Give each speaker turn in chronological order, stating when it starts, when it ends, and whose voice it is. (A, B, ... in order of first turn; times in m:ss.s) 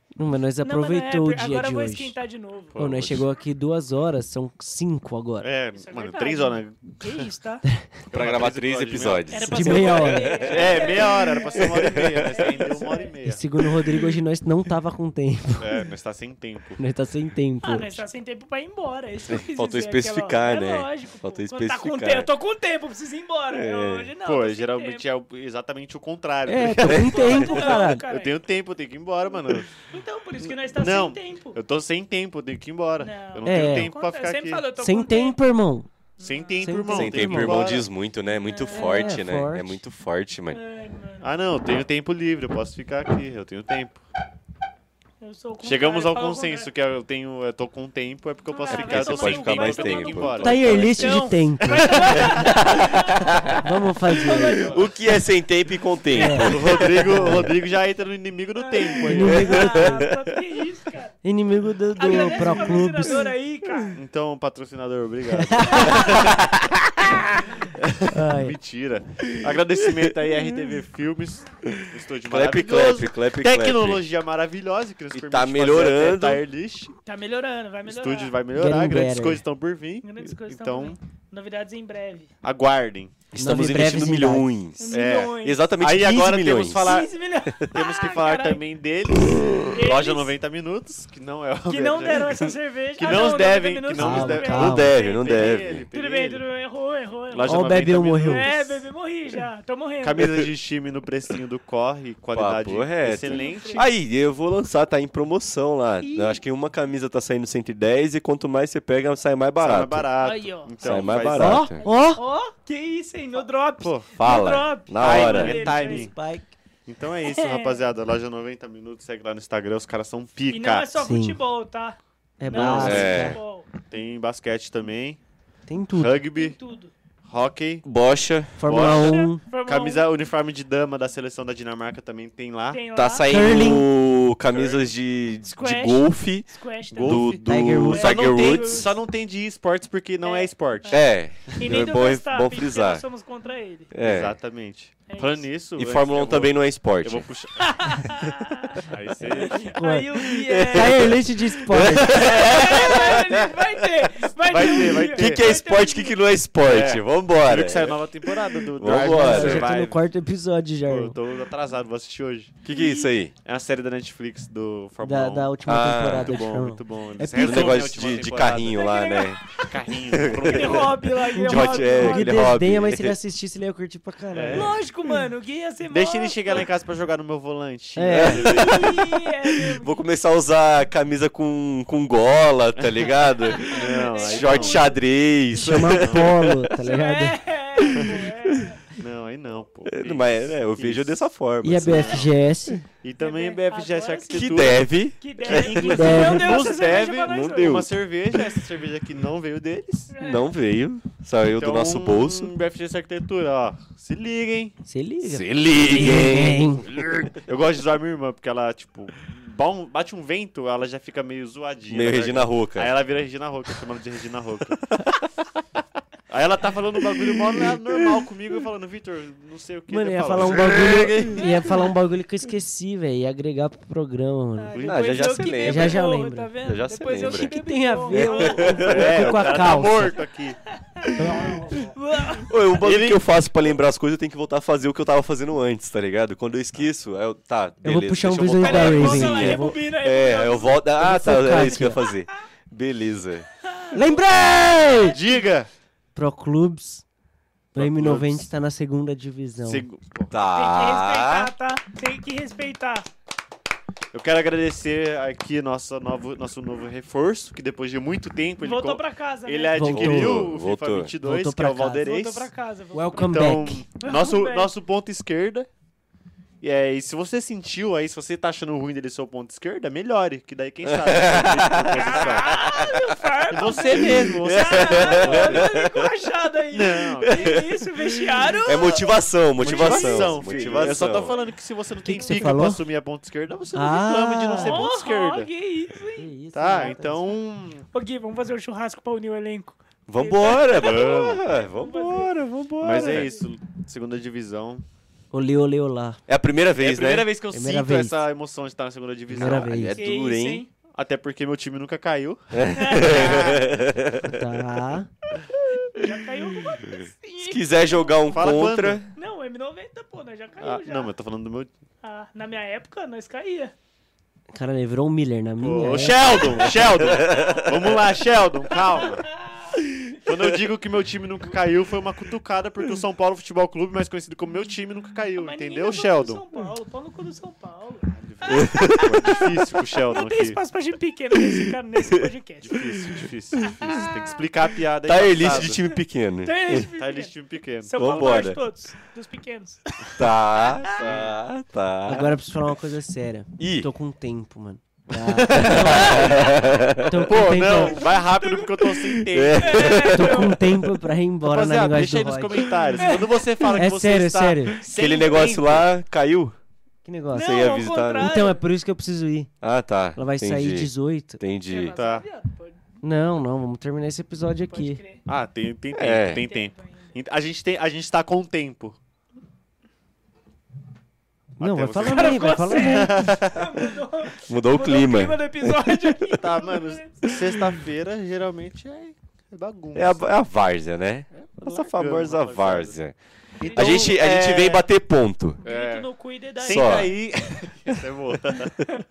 0:00.2-0:02.2 A
0:00.6-0:02.8 B
0:02.7-0:03.3 C
0:02.8-0:05.5 A
0:05.4-0:07.2 C
0:05.8-0:07.6 B
0:08.1-0:13.4 C
0:08.1-0:11.0 D
0:09.3-0:11.7 B
0:09.5-0:10.5 A
0:11.5-0:12.5 D
0:12.4-0:13.1 B
0:13.2-0:15.8 A
0:15.6-0:16.8 C
0:16.8-0:18.0 A
0:17.6-0:25.0 B
0:19.3-0:22.3 D
0:23.5-0:24.1 D
0:24.2-0:29.7 C
0:26.5-0:28.0 A
0:26.9-0:27.3 D
0:26.9-0:28.4 B
0:29.8-0:31.6 B
0:30.6-0:34.6 C
0:33.0-0:35.4 B
0:33.4-0:33.9 A
0:34.8-0:35.9 A
0:36.2-0:36.7 B
0:36.2-0:37.9 C
0:36.6-0:37.8 A
0:36.9-0:40.6 D
0:38.3-0:39.2 B
0:38.7-0:39.8 A
0:40.5-0:41.3 B
0:41.2-0:44.0 C
0:45.2-0:46.7 B
0:45.6-0:50.8 C
0:48.5-0:54.9 B
0:48.7-0:51.3 D
0:50.4-0:54.7 A
0:51.7-0:52.6 C
0:52.3-0:53.6 D
0:54.5-0:57.5 D
0:54.5-0:54.9 C
0:56.1-0:57.5 A
0:56.2-0:56.7 B
0:56.4-0:59.7 C
0:58.6-1:01.2 B
0:59.0-1:00.0 A
0:59.2-1:00.2 D
1:01.2-1:03.3 A
1:02.0-1:04.0 B
1:03.9-1:06.5 C
1:05.3-1:06.2 A
1:05.7-1:06.0 B
1:06.0-1:07.2 D
1:07.6-1:16.9 C
1:08.1-1:08.6 A
1:12.2-1:14.0 D
1:15.1-1:16.4 D
1:17.1-1:18.4 B
1:17.9-1:21.0 C
1:18.5-1:19.4 A
1:20.0-1:22.3 B
1:22.4-1:23.2 C
1:23.3-1:27.0 D
1:23.4-1:24.5 A
1:24.8-1:25.7 B
1:24.9-1:32.4 C
1:26.8-1:28.6 B
1:29.7-1:30.3 B
1:31.7-1:40.2 B
1:33.0-1:36.4 C
1:34.0-1:34.9 A
1:34.5-1:35.9 D
1:37.3-1:38.8 C
1:37.4-1:38.5 A
1:40.0-1:43.9 C
1:42.3-1:50.1 D
1:43.2-1:43.9 B
1:46.0-1:46.4 B
1:49.6-1:51.7 C
1:50.2-1:51.1 B
1:50.8-1:51.8 D
1:51.3-1:52.2 A
1:51.8-1:56.1 B
1:53.8-1:54.1 C
1:54.2-1:55.7 D
1:55.0-1:56.1 C
1:55.2-1:56.5 A
1:56.9-2:01.0 C
1:57.2-1:57.8 B
2:00.5-2:03.7 B
2:01.0-2:01.4 A
2:02.4-2:03.4 A
2:02.5-2:03.1 C
2:02.5-2:03.4 D
2:03.9-2:05.2 C
2:05.7-2:06.2 A
2:06.0-2:06.6 C
2:06.3-2:06.9 B
2:07.3-2:07.9 C
2:07.8-2:08.9 D
2:08.6-2:09.4 A
2:08.6-2:12.8 C
2:08.8-2:10.0 B
2:12.7-2:13.8 B
2:13.0-2:18.8 D
2:13.3-2:13.9 A
2:14.5-2:14.9 C
2:15.5-2:17.4 B
2:17.0-2:21.6 C
2:17.5-2:18.2 A
2:17.9-2:19.0 B
2:20.2-2:23.9 B
2:20.9-2:23.0 D
2:23.9-2:24.4 D
2:24.0-2:28.1 C
2:25.1-2:25.5 B
2:25.8-2:27.3 D
2:27.6-2:28.8 B
2:28.8-2:29.6 C
2:29.4-2:31.2 B
2:29.4-2:30.1 A
2:30.4-2:33.6 D
2:30.7-2:32.2 A
2:32.0-2:36.2 B
2:32.1-2:32.9 C
2:34.5-2:35.5 C
2:34.6-2:38.0 D
2:36.6-2:40.0 C
2:38.8-2:39.8 D
2:38.9-2:41.2 A
2:40.9-2:42.5 C
2:42.6-2:43.3 D
2:42.7-2:43.1 B
2:43.4-2:48.9 C
2:45.0-2:47.9 A
2:45.7-2:46.4 D
2:47.4-2:49.4 D
2:48.7-2:49.4 B
2:49.6-2:51.0 C
2:50.1-2:53.2 D
2:50.4-2:52.5 B
2:51.3-2:54.8 A
2:54.3-2:54.7 C
2:54.5-2:56.6 B
2:55.9-2:58.9 C
2:58.0-2:58.5 A
2:58.1-3:06.7 D
2:58.4-3:00.0 B
3:02.8-3:03.1 C
3:03.5-3:05.0 B
3:03.7-3:04.9 C
3:05.6-3:07.4 A
3:05.6-3:06.4 C
3:06.8-3:08.8 B
3:07.9-3:08.2 C
3:09.0-3:11.2 C
3:09.9-3:12.8 D
3:11.6-3:12.8 A
3:11.8-3:12.3 C
3:13.0-3:20.1 C
3:13.2-3:17.8 B
3:14.3-3:16.3 D
3:15.9-3:16.5 A
3:17.2-3:18.4 D
3:20.1-3:20.5 B
3:20.2-3:22.5 D
3:21.5-3:24.7 C
3:24.9-3:27.1 A
3:25.2-3:27.4 D
3:25.9-3:26.6 B
3:26.9-3:34.8 C
3:31.9-3:32.9 D
3:34.9-3:35.2 D
3:36.3-3:41.5 C
3:37.2-3:37.8 D
3:39.9-3:44.8 A
3:40.4-3:41.3 D
3:41.3-3:41.8 B
3:44.6-3:49.8 B
3:44.7-3:45.0 C
3:44.8-3:46.1 D
3:45.5-3:46.5 A
3:46.6-3:47.6 D
3:47.2-3:50.2 A
3:48.1-3:49.6 D
3:48.6-3:50.6 C
3:50.9-3:52.6 B
3:51.0-3:51.6 D
3:51.2-3:51.9 A
3:52.4-4:03.5 D
3:52.8-3:53.2 C
3:57.8-3:59.8 A
3:58.6-4:00.8 B
4:01.0-4:02.0 A
4:03.6-4:04.3 B
4:03.9-4:05.2 A
4:05.1-4:05.7 C
4:06.2-4:07.0 A
4:07.7-4:08.5 C
4:07.8-4:09.8 A
4:09.6-4:10.4 C
4:10.3-4:11.5 D
4:10.5-4:13.1 B
4:14.1-4:22.5 C
4:18.6-4:19.9 B
4:19.8-4:20.5 A
4:19.8-4:21.1 D
4:21.2-4:22.1 A
4:22.0-4:24.7 B
4:22.9-4:23.8 A
4:23.2-4:25.7 C
4:26.6-4:32.8 C
4:30.8-4:33.0 D
4:31.9-4:41.5 B
4:33.5-4:35.7 C
4:33.9-4:36.1 D
4:36.7-4:37.7 C
4:37.2-4:37.8 D
4:38.7-4:41.4 D
4:39.6-4:45.5 C
4:42.0-4:42.8 A
4:42.1-4:42.4 B
4:43.7-4:44.8 A
4:44.5-4:47.0 B
4:46.2-4:47.3 A
4:46.5-4:47.9 C
4:47.9-4:53.4 B
4:50.1-4:53.3 D
4:50.7-4:51.4 C
4:52.8-4:54.8 C
4:55.3-4:56.2 A
4:56.3-4:57.3 D
4:56.8-4:59.8 C
4:57.5-4:58.2 A
4:59.3-5:00.0 A
4:59.4-5:00.6 D
5:00.0-5:00.7 B
5:00.9-5:03.7 C
5:02.5-5:04.4 D
5:02.7-5:03.7 B
5:04.3-5:05.1 A
5:05.9-5:08.6 B
5:06.9-5:09.1 D
5:08.3-5:09.0 C
5:09.2-5:11.1 B
5:10.6-5:11.7 C
5:12.0-5:13.7 B
5:14.5-5:16.7 A
5:15.6-5:19.3 C
5:16.5-5:17.8 D
5:17.2-5:17.7 B
5:18.7-5:19.8 B
5:20.1-5:26.4 C
5:25.4-5:29.3 B
5:28.1-5:30.6 C
5:28.5-5:29.5 D
5:30.1-5:32.8 B
5:32.6-5:35.9 C
5:33.0-5:34.0 D
5:35.0-5:36.9 D
5:36.4-5:39.8 B
5:37.0-5:38.6 C
5:38.0-5:38.6 D
5:40.1-5:42.3 D
5:40.9-5:41.4 C
5:42.0-5:48.1 A
5:43.6-5:43.9 D
5:45.1-5:46.5 C
5:45.5-5:47.4 D
5:47.2-5:50.3 C
5:48.1-5:48.7 B
5:48.9-5:50.5 D
5:49.6-5:50.6 B
5:50.1-5:53.0 A
5:51.4-5:55.9 C
5:53.0-5:53.3 B
5:53.7-5:54.9 A
5:54.9-5:56.6 D
5:57.0-5:57.6 A
5:57.3-5:58.4 D
5:57.3-5:58.6 B
5:58.2-5:59.5 A
5:59.6-6:02.0 D
6:00.2-6:01.4 A
6:01.7-6:02.8 B
6:02.0-6:02.2 C
6:03.0-6:05.0 A
6:04.7-6:05.2 B
6:05.3-6:09.0 C
6:06.0-6:06.4 D
6:06.4-6:07.1 B
6:11.6-6:13.4 A
6:11.6-6:13.7 C
6:12.1-6:17.3 B
6:14.5-6:16.2 D
6:16.4-6:20.3 C
6:19.9-6:23.2 D
6:21.4-6:23.0 C
6:23.6-6:24.1 B
6:23.6-6:24.8 C
6:23.8-6:25.6 D
6:25.6-6:27.1 B
6:25.6-6:26.1 C
6:26.6-6:28.8 C
6:26.7-6:27.2 D